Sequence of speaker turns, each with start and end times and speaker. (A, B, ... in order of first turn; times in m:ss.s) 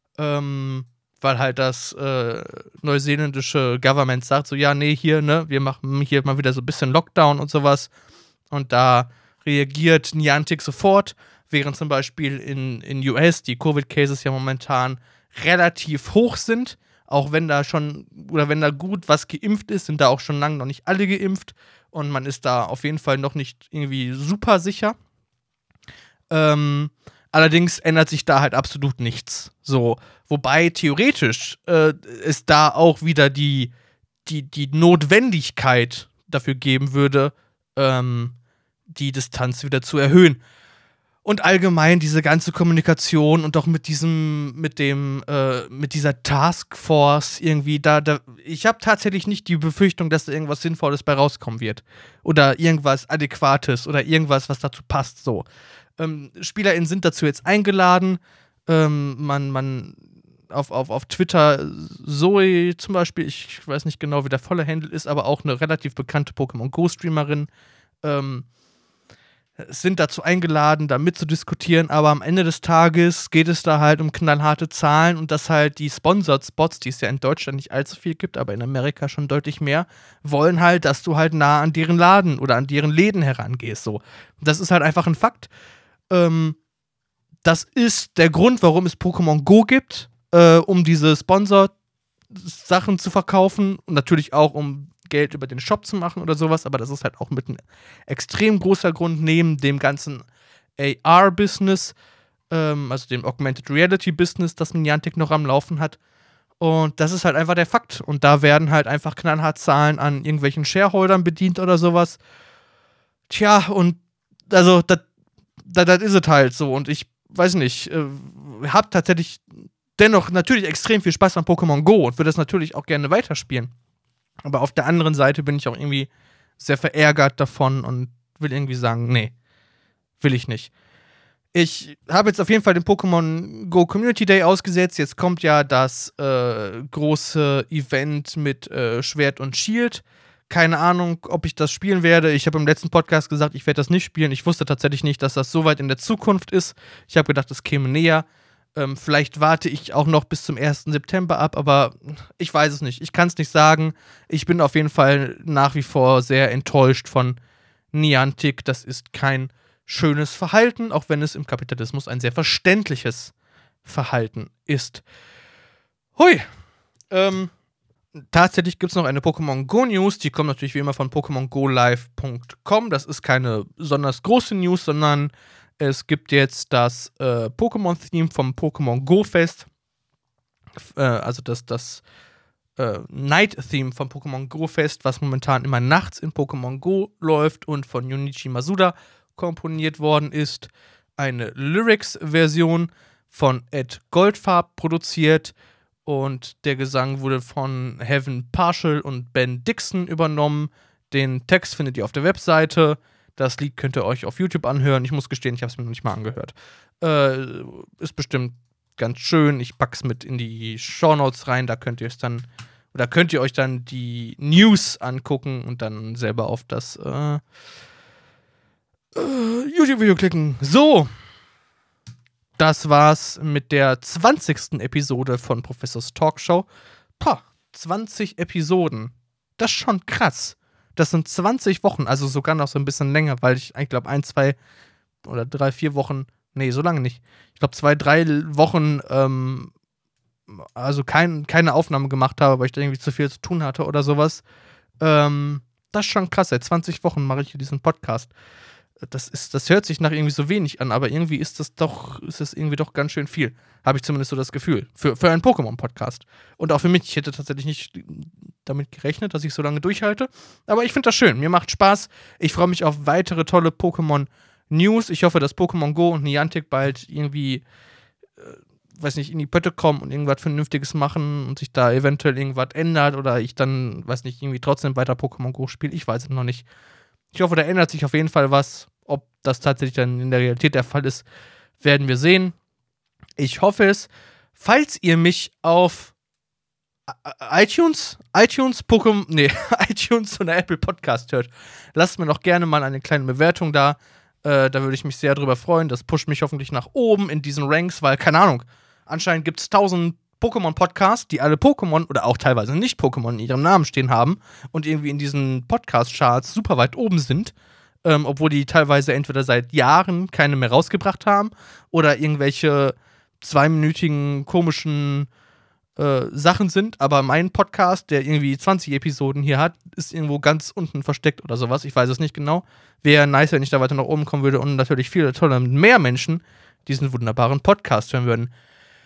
0:00.2-0:07.9 A
0:08.5-0:25.0 A
0:26.3-0:33.7 A
0:34.2-0:38.4 A
0:38.9-0:40.4 A
0:41.2-0:55.5 A
0:56.0-1:07.5 A
1:08.0-1:08.5 A
1:09.6-1:25.5 A
1:26.1-1:26.6 A
1:27.4-1:31.7 A
1:32.3-1:40.3 A
1:40.8-1:42.0 A
1:42.5-1:46.0 A
1:46.6-1:52.2 A
1:53.3-1:54.0 A
1:54.5-1:55.0 A
1:55.6-1:59.4 A
2:00.0-2:03.7 A
2:04.4-2:09.3 A
2:10.2-2:10.7 A
2:11.5-2:37.4 A
2:37.9-2:43.3 A
2:43.8-2:45.0 A
2:46.2-2:46.4 A
2:47.1-2:47.5 A
2:48.3-2:59.7 A
3:01.0-3:02.0 A
3:02.8-3:15.5 A
3:16.0-3:37.4 A
3:39.2-3:41.1 A
3:42.6-3:46.7 A
3:47.2-3:54.6 A
3:55.2-3:59.7 A
4:00.5-4:04.4 A
4:05.0-4:08.3 A
4:09.0-4:27.6 A
4:28.4-4:36.7 A
4:37.3-4:41.2 A
4:41.8-4:42.6 A
4:43.4-4:46.1 A
4:47.2-5:15.3 A
5:16.0-5:28.5 A